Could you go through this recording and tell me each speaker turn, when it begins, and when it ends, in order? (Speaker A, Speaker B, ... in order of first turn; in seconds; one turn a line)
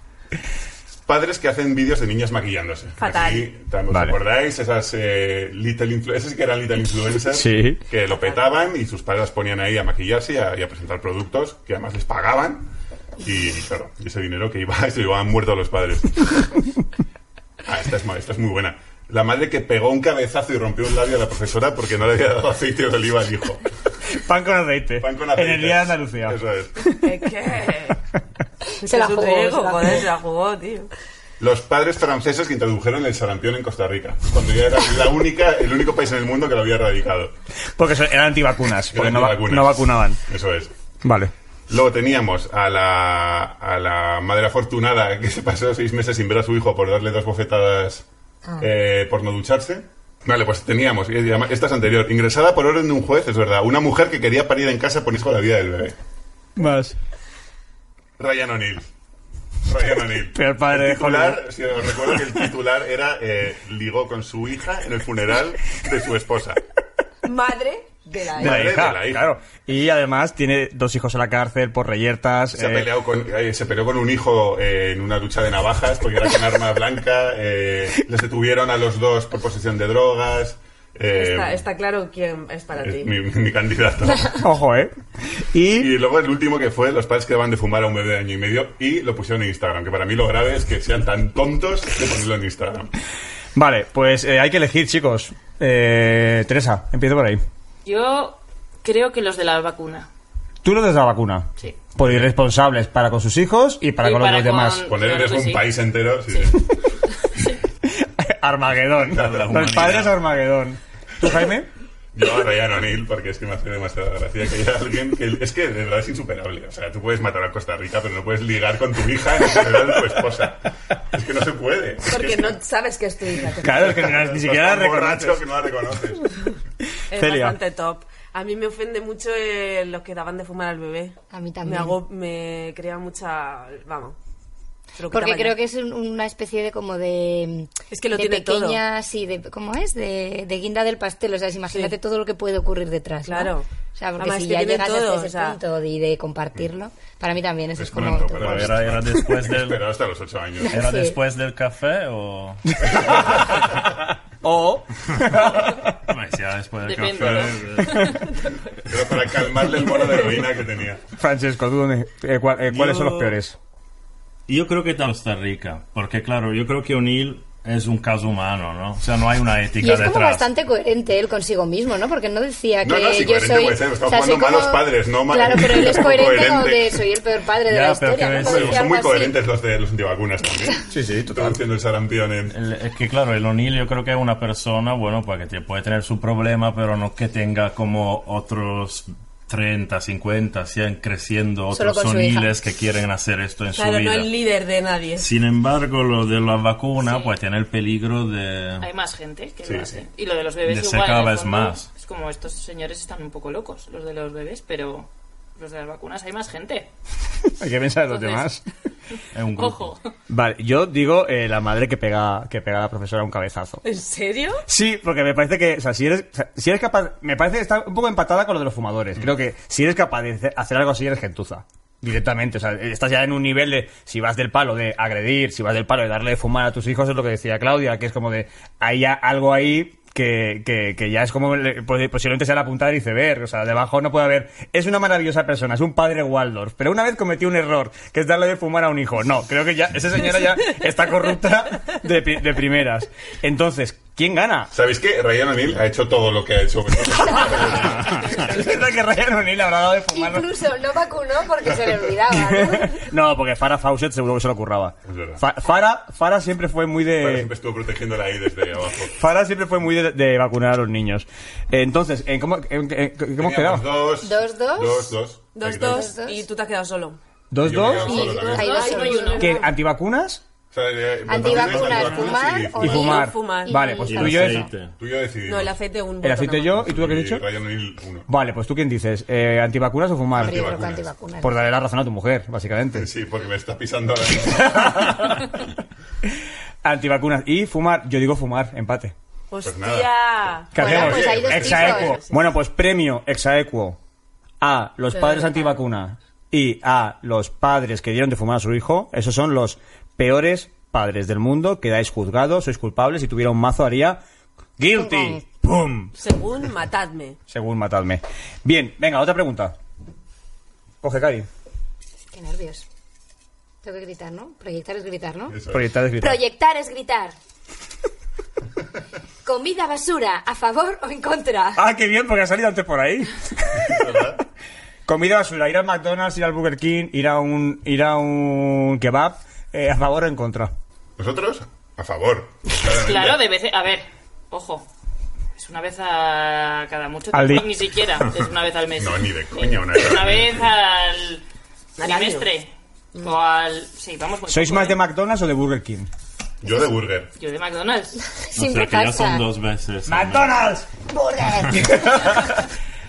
Speaker A: 1.1-12.7
Speaker B: 3.0-3.5
Speaker C: 3.9-4.2
Speaker C: 7.3-7.8
Speaker A: 13.2-16.5
Speaker A: 17.6-23.6
Speaker C: 24.1-26.4
Speaker A: 25.0-26.9
Speaker B: 27.0-28.0
Speaker D: 28.7-30.1
Speaker B: 28.8-30.9
Speaker A: 31.4-37.3
Speaker C: 37.8-40.2
Speaker A: 38.9-40.7
Speaker C: 41.0-41.3
Speaker A: 41.7-48.0
Speaker A: 48.6-56.0
Speaker C: 56.6-57.0
Speaker A: 58.2-58.9
Speaker A: 59.6-66.6
Speaker C: 60.3-61.4
Speaker B: 67.2-68.7
Speaker A: 68.4-69.3
Speaker C: 68.4-72.9
Speaker A: 72.5-81.6
Speaker B: 81.1-83.2
Speaker A: 82.8-84.4
Speaker C: 84.4-85.9
Speaker A: 85.8-92.9
Speaker C: 93.5-97.4
Speaker E: 97.8-100.1
Speaker C: 100.6-104.8
Speaker E: 104.0-105.7
Speaker A: 104.8-106.8
Speaker C: 108.0-111.7
Speaker A: 109.1-109.8
Speaker F: 109.1-110.2
Speaker A: 112.1-122.6
Speaker B: 122.1-124.1
Speaker C: 123.6-125.4
Speaker A: 123.9-126.4
Speaker B: 127.1-134.2
Speaker C: 127.1-127.6
Speaker D: 131.3-132.0
Speaker B: 134.9-135.5
Speaker D: 135.1-148.8
Speaker B: 137.9-138.8
Speaker B: 143.2-143.7
Speaker B: 144.2-145.6
Speaker A: 147.8-150.8
Speaker F: 148.3-149.8
Speaker D: 150.6-151.2
Speaker F: 150.7-153.3
Speaker C: 154.4-155.7
Speaker F: 155.1-158.3
Speaker E: 156.8-158.3
Speaker A: 157.2-157.6
Speaker A: 158.8-161.0
Speaker C: 161.2-163.6
Speaker F: 162.7-163.3
Speaker F: 164.5-170.5
Speaker D: 169.8-179.3
Speaker A: 172.8-177.0
Speaker F: 177.6-178.9
Speaker A: 178.4-182.6
Speaker C: 180.9-181.6
Speaker F: 182.5-194.3
Speaker D: 191.7-192.5
Speaker B: 193.7-195.3
Speaker F: 195.2-198.9
Speaker E: 197.0-197.3
Speaker E: 198.8-205.1
Speaker A: 199.6-200.0
Speaker F: 200.6-201.9
Speaker E: 205.6-206.9
Speaker C: 207.4-208.6
Speaker E: 208.1-208.4
Speaker F: 209.3-209.9
Speaker E: 209.5-210.0
Speaker C: 210.3-213.8
Speaker B: 213.8-214.6
Speaker C: 214.7-244.7
Speaker A: 244.7-248.3
Speaker C: 247.8-250.5
Speaker D: 250.1-253.0
Speaker C: 252.3-257.5
Speaker A: 255.1-255.4
Speaker A: 257.2-259.1
Speaker C: 259.1-263.9
Speaker A: 263.4-266.1
Speaker D: 264.2-265.1
Speaker B: 265.5-267.2
Speaker D: 265.8-266.4
Speaker C: 267.5-268.3
Speaker A: 267.6-268.9
Speaker D: 268.0-269.6
Speaker B: 268.1-269.5
Speaker E: 268.4-269.6
Speaker C: 269.4-270.4
Speaker A: 270.7-273.2
Speaker D: 271.3-274.7
Speaker C: 272.8-274.7
Speaker B: 272.8-273.9
Speaker F: 274.1-274.9
Speaker A: 275.0-275.8
Speaker B: 275.5-276.8
Speaker C: 276.2-277.4
Speaker A: 276.7-278.3
Speaker C: 278.3-280.7
Speaker A: 280.3-281.1
Speaker D: 280.4-281.7
Speaker C: 281.4-283.1
Speaker A: 282.9-285.3
Speaker C: 284.8-285.4
Speaker C: 286.8-289.1
Speaker B: 289.5-292.5
Speaker A: 289.6-290.1
Speaker C: 290.7-294.0
Speaker A: 290.8-292.1
Speaker D: 290.8-292.2
Speaker C: 294.6-304.2
Speaker C: 304.8-306.1
Speaker D: 304.9-305.4
Speaker B: 306.2-307.4
Speaker C: 307.5-309.7
Speaker C: 311.0-311.5
Speaker D: 312.3-312.9
Speaker D: 313.8-315.6
Speaker A: 315.5-315.9
Speaker C: 315.7-316.4
Speaker D: 316.2-317.3
Speaker D: 319.4-321.8
Speaker C: 321.8-324.1
Speaker A: 323.8-324.4
Speaker C: 325.1-330.7
Speaker A: 331.2-333.4
Speaker E: 332.8-334.9
Speaker E: 335.6-341.4
Speaker C: 337.3-337.7
Speaker A: 339.0-340.7
Speaker B: 342.0-342.5
Speaker E: 342.0-345.0
Speaker C: 344.5-346.1
Speaker A: 346.6-347.3
Speaker E: 347.4-348.2
Speaker D: 348.3-349.4
Speaker F: 348.5-350.6
Speaker C: 350.1-352.6